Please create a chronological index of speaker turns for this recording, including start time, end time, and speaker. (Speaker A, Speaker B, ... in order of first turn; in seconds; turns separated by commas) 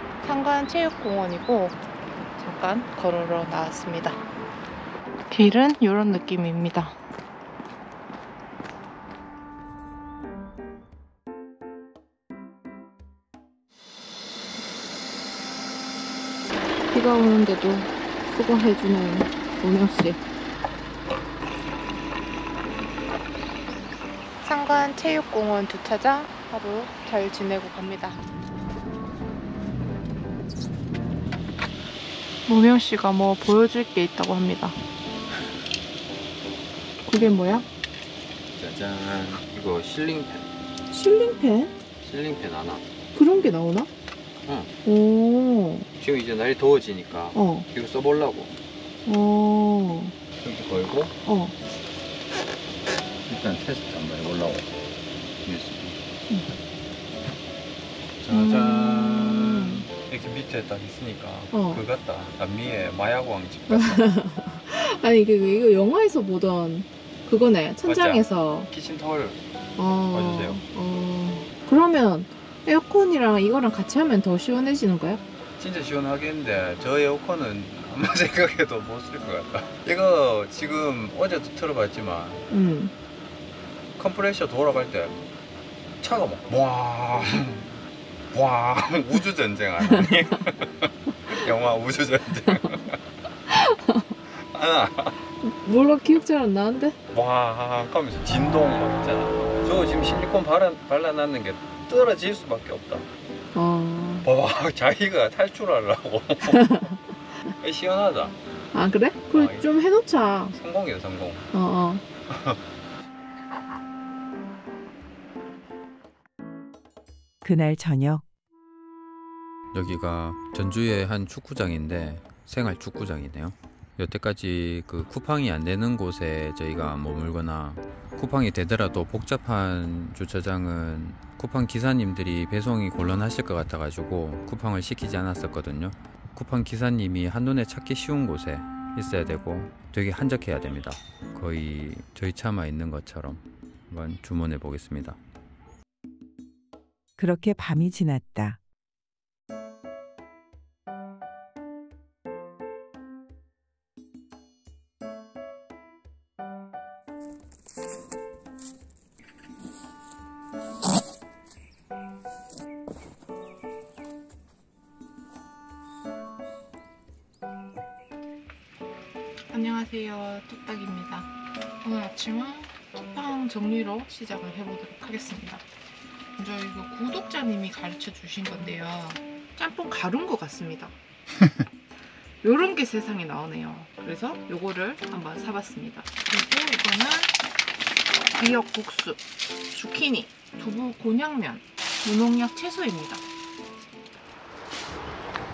Speaker A: 0.2-1.8, Speaker A: 2.4-4.2, Speaker A: 5.3-7.0, Speaker A: 16.9-20.2, Speaker A: 24.4-28.2, Speaker A: 32.5-34.8, Speaker A: 37.0-37.7, Speaker B: 38.5-40.5, Speaker A: 40.9-41.7, Speaker B: 42.0-42.9, Speaker A: 43.1-43.9, Speaker B: 44.5-44.7, Speaker A: 44.9-45.9, Speaker B: 46.0-48.5, Speaker A: 47.3-47.7, Speaker A: 49.1-50.1, Speaker B: 50.4-51.1, Speaker A: 51.2-51.5, Speaker B: 53.3-54.7, Speaker B: 55.4-56.0, Speaker B: 58.2-64.0, Speaker A: 58.3-59.9, Speaker A: 61.5-61.8, Speaker A: 63.7-68.7, Speaker B: 67.8-69.4, Speaker A: 69.8-75.2, Speaker B: 70.1-70.6, Speaker B: 75.6-82.4, Speaker A: 82.5-82.9, Speaker B: 84.0-85.2, Speaker B: 86.0-87.7, Speaker B: 88.3-93.0, Speaker A: 93.5-94.1, Speaker B: 94.3-95.2, Speaker A: 95.4-97.0, Speaker B: 97.1-103.1, Speaker A: 103.5-104.3, Speaker B: 104.2-106.7, Speaker A: 106.4-107.0, Speaker B: 107.6-108.4, Speaker A: 108.7-110.5, Speaker B: 109.3-109.7, Speaker B: 110.5-111.5, Speaker A: 111.5-112.0, Speaker B: 112.3-112.6, Speaker C: 117.4-118.2, Speaker B: 119.7-145.2, Speaker C: 147.2-148.6, Speaker A: 169.5-171.3, Speaker A: 171.8-175.7, Speaker A: 176.4-181.0, Speaker A: 182.4-187.3, Speaker A: 188.3-193.2